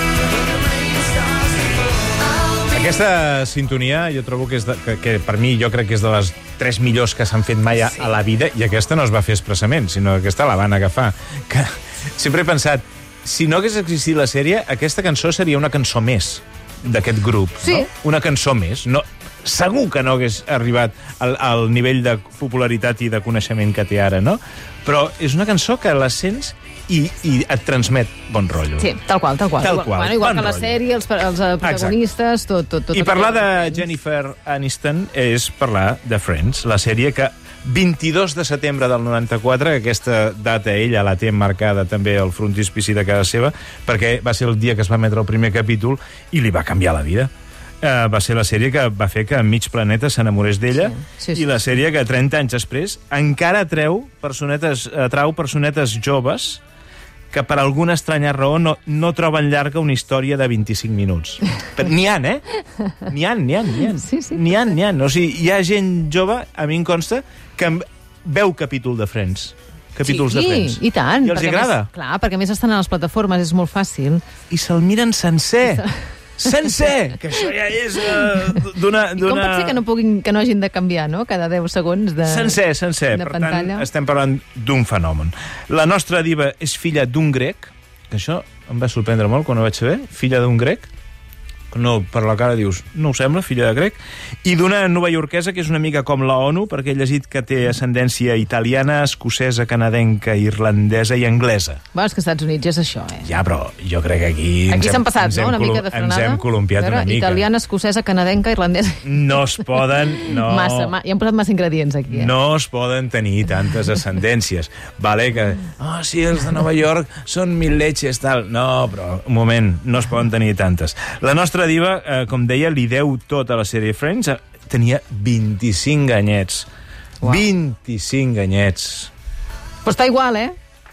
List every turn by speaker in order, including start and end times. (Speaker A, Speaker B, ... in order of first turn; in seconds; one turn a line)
Speaker A: 0.4-2.7
Speaker B: 2.7-28.9
Speaker C: 17.6-17.9
Speaker C: 28.8-33.8
Speaker B: 29.6-30.8
Speaker B: 31.6-32.0
Speaker B: 32.9-56.6
Speaker C: 50.9-51.4
Speaker B: 57.3-62.5
Speaker B: 63.0-71.9
Speaker C: 64.0-64.4
Speaker C: 70.0-74.2
Speaker B: 74.5-75.9
Speaker B: 76.4-79.8
Speaker C: 79.2-82.6
Speaker B: 82.2-90.9
Speaker C: 83.1-83.9
Speaker B: 91.7-101.8
Speaker C: 101.9-103.3
Speaker B: 103.2-107.5
Speaker C: 104.7-112.3
Speaker B: 109.0-110.9
Speaker B: 112.1-126.7
Speaker B: 127.2-129.1
Speaker C: 129.8-130.6